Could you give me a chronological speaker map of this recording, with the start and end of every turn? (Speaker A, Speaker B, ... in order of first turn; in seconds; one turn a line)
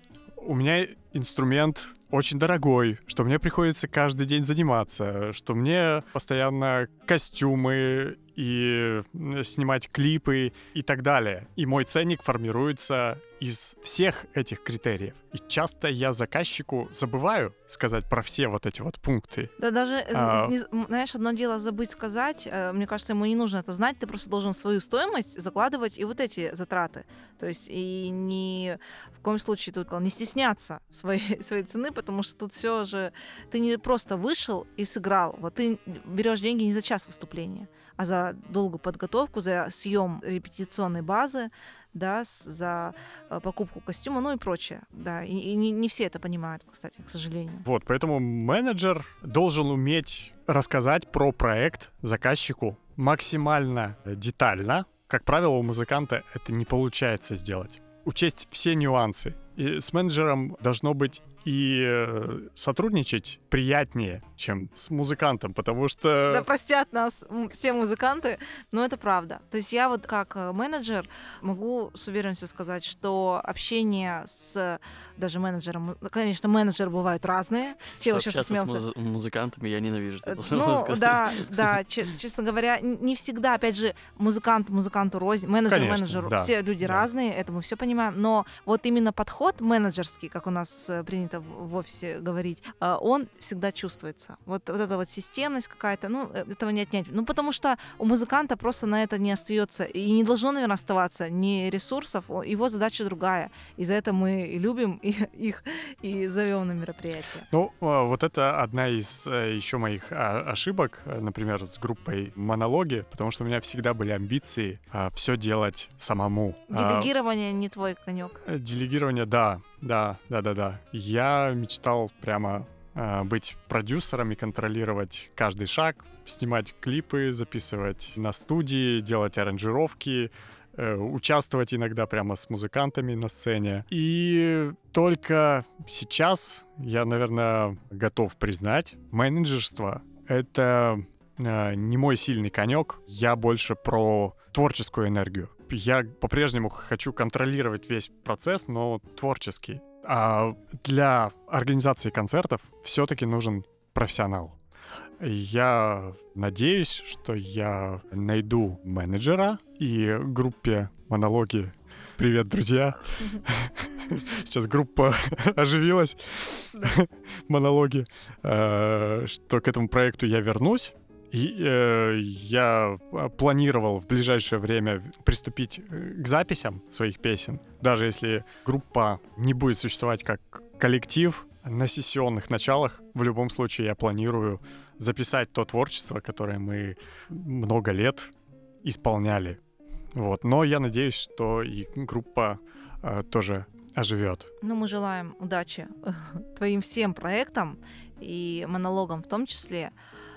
Speaker A: 0.4-19.5
Speaker B: 19.6-47.7
Speaker A: 20.1-20.6
Speaker A: 47.7-66.5
Speaker B: 66.3-78.8
Speaker C: 78.0-81.8
Speaker B: 80.3-107.5
Speaker A: 85.7-87.0
Speaker A: 107.5-117.1
Speaker B: 116.7-118.4
Speaker A: 118.5-154.6
Speaker A: 155.2-188.3
Speaker A: 188.8-189.6
Speaker A: 190.1-194.5
Speaker B: 194.6-199.9